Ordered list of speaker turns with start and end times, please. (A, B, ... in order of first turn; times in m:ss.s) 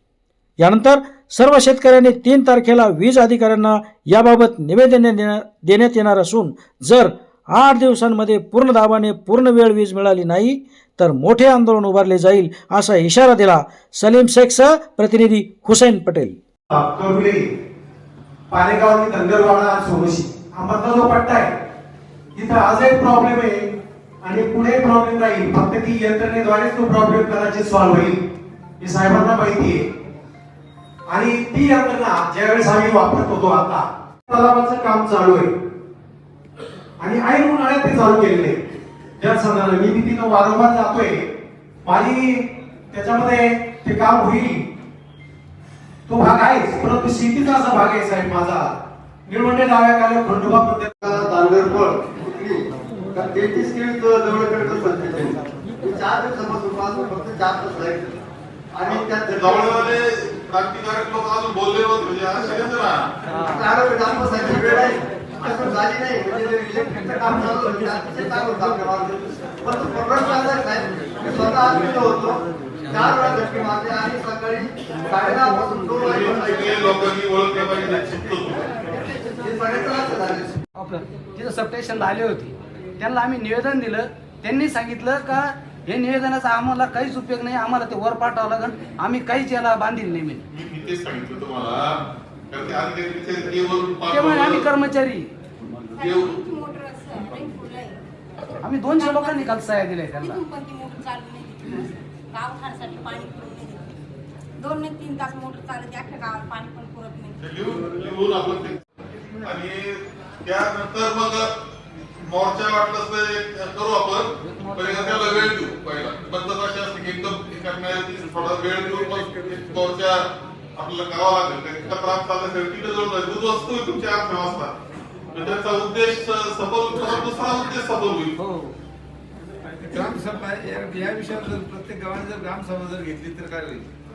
0:00.6-0:16.4 A
0:16.7-0:17.4 B
0:18.5-0:21.5 B
0:22.4-0:23.6 B
0:24.2-0:28.2 B
0:28.8-0:29.8 B
0:31.1-0:35.5 B
0:37.0-0:38.6 B
0:39.2-0:41.2 B
0:41.8-0:44.6 B
0:46.1-0:48.7 B
0:49.3-0:51.0 B
0:51.0-0:52.6 C
0:53.1-0:58.2 C
0:58.7-0:59.9 C
0:58.9-1:03.0 D
1:03.4-1:17.1 C
1:16.1-1:18.7 D
1:19.4-1:20.6 C
1:20.8-1:30.4 E
1:30.5-1:31.9 D
1:32.5-1:34.7 D
1:34.1-1:35.3 E
1:36.0-1:38.0 F
1:36.0-1:36.4 D
1:38.6-1:40.4 E
1:38.9-1:43.9 F
1:44.6-1:47.4 F
1:47.4-1:48.8 D
1:49.4-1:51.5 D
1:52.2-2:00.2 D
1:54.5-1:55.2 E
2:00.8-2:04.7 D
2:05.3-2:08.4 D
2:09.9-2:13.9 G